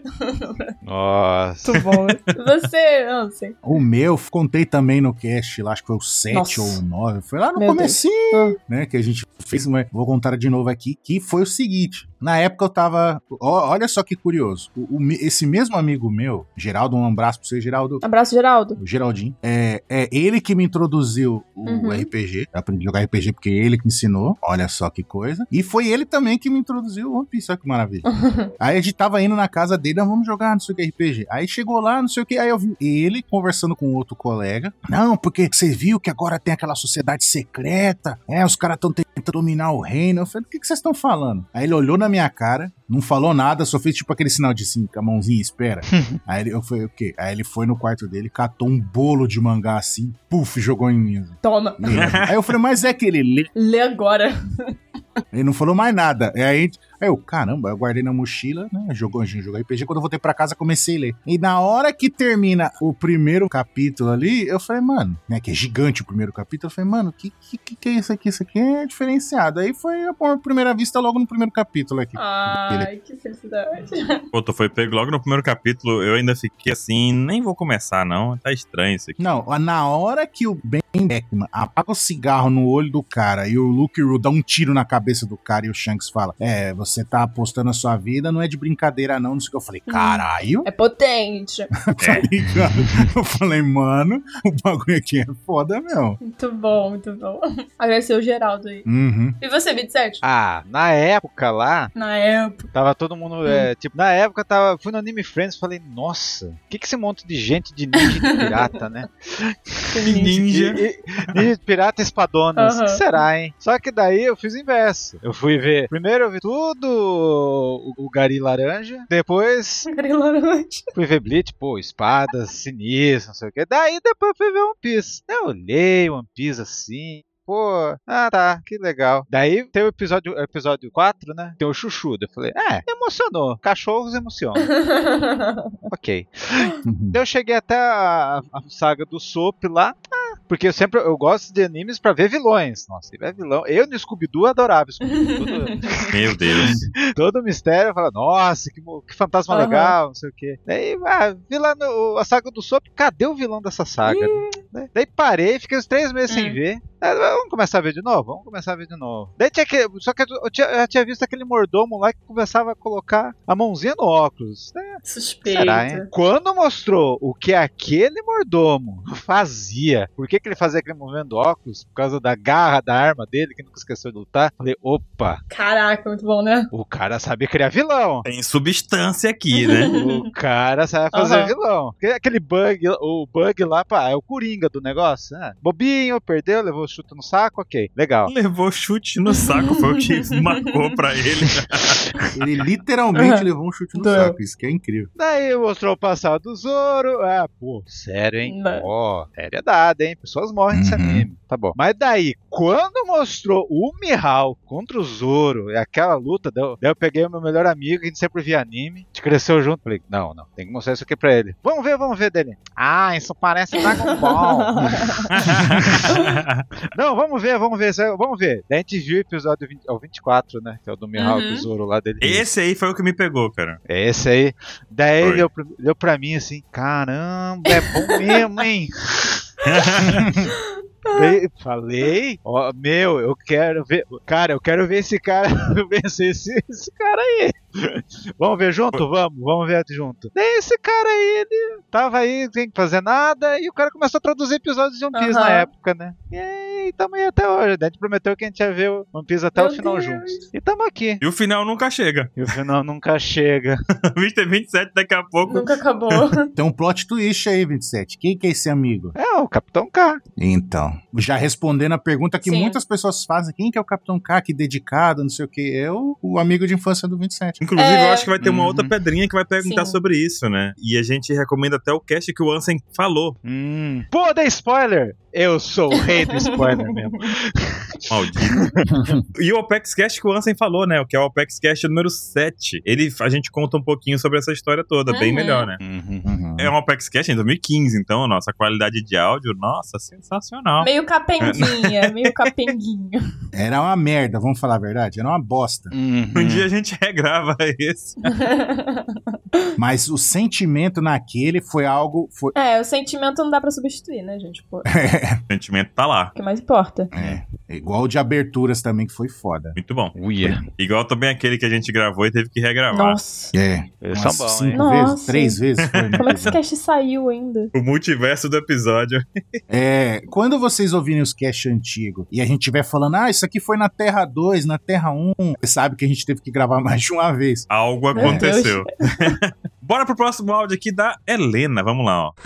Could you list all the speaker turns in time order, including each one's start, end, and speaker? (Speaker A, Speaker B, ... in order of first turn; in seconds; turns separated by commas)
Speaker A: 0.2-0.7, Speaker B: 0.8-1.7, Speaker A: 1.6-3.6, Speaker C: 3.6-18.0, Speaker A: 6.3-6.8, Speaker A: 7.6-8.6, Speaker A: 18.0-18.8, Speaker C: 18.8-28.0, Speaker A: 21.6-22.1, Speaker A: 28.0-28.5, Speaker C: 28.6-53.5, Speaker B: 45.9-46.2, Speaker A: 51.4-51.8, Speaker D: 51.9-52.4, Speaker A: 53.5-54.3, Speaker C: 55.3-72.9, Speaker A: 72.2-74.2, Speaker D: 74.3-79.2, Speaker C: 79.2-90.7, Speaker A: 89.9-91.7, Speaker C: 91.9-96.2, Speaker A: 96.2-98.8, Speaker C: 98.8-99.4, Speaker A: 99.4-100.2, Speaker B: 100.2-101.9, Speaker A: 101.9-102.7, Speaker B: 102.7-119.8, Speaker A: 108.0-108.7, Speaker A: 109.9-110.4, Speaker D: 110.0-110.8, Speaker A: 112.5-113.2, Speaker A: 119.8-120.8, Speaker B: 120.9-134.8, Speaker A: 134.8-135.7, Speaker B: 135.9-175.4, Speaker C: 136.8-137.2, Speaker A: 145.2-145.5, Speaker D: 146.1-146.7, Speaker A: 149.5-149.9, Speaker A: 154.0-154.5, Speaker A: 156.3-156.6, Speaker A: 165.0-166.1, Speaker A: 175.5-176.7, Speaker B: 176.7-178.2, Speaker D: 178.2-179.9, Speaker A: 179.6-180.2, Speaker B: 179.9-188.3, Speaker A: 181.1-181.5, Speaker D: 188.3-192.0, Speaker A: 189.4-189.7, Speaker C: 192.3-195.1, Speaker A: 193.2-193.4, Speaker A: 193.9-194.3, Speaker B: 195.2-216.2, Speaker A: 198.4-198.8, Speaker C: 200.7-201.2, Speaker A: 213.9-215.2, Speaker D: 215.3-216.6, Speaker B: 216.9-222.5, Speaker A: 221.2-221.7, Speaker D: 222.2-223.8, Speaker B: 223.9-229.4, Speaker D: 225.2-225.4, Speaker A: 227.8-228.2, Speaker D: 229.6-230.2, Speaker A: 231.1-231.3, Speaker B: 231.1-251.2, Speaker A: 245.1-245.7, Speaker A: 249.5-250.4, Speaker D: 251.2-252.3, Speaker B: 252.4-253.8, Speaker D: 254.1-256.2, Speaker A: 255.5-256.5, Speaker C: 256.6-259.1, Speaker B: 259.1-260.2, Speaker C: 260.4-267.6, Speaker A: 262.4-262.8, Speaker D: 267.6-273.4, Speaker A: 267.8-268.3, Speaker B: 268.4-268.9, Speaker A: 269.6-270.0, Speaker B: 273.4-277.8, Speaker A: 276.0-277.2, Speaker D: 278.1-278.7, Speaker C: 278.9-279.2, Speaker D: 279.3-285.8, Speaker A: 285.1-285.7, Speaker B: 285.8-286.3, Speaker C: 286.2-286.7, Speaker D: 286.6-290.9, Speaker A: 290.8-293.2, Speaker D: 291.4-292.1, Speaker C: 293.5-295.9, Speaker B: 295.9-296.6, Speaker D: 296.3-298.3, Speaker A: 298.3-299.1, Speaker C: 299.8-302.5, Speaker A: 302.5-304.9, Speaker C: 304.9-305.4, Speaker D: 305.5-306.3, Speaker A: 306.3-307.1, Speaker C: 307.1-309.8, Speaker D: 309.8-310.1, Speaker B: 310.1-310.6, Speaker D: 310.8-313.2, Speaker A: 312.9-313.5, Speaker C: 313.5-316.6, Speaker B: 314.0-314.9, Speaker A: 314.7-315.6, Speaker D: 315.9-316.2, Speaker A: 316.2-317.7, Speaker D: 317.7-319.4, Speaker C: 319.7-328.4, Speaker D: 327.7-332.3, Speaker A: 328.1-328.8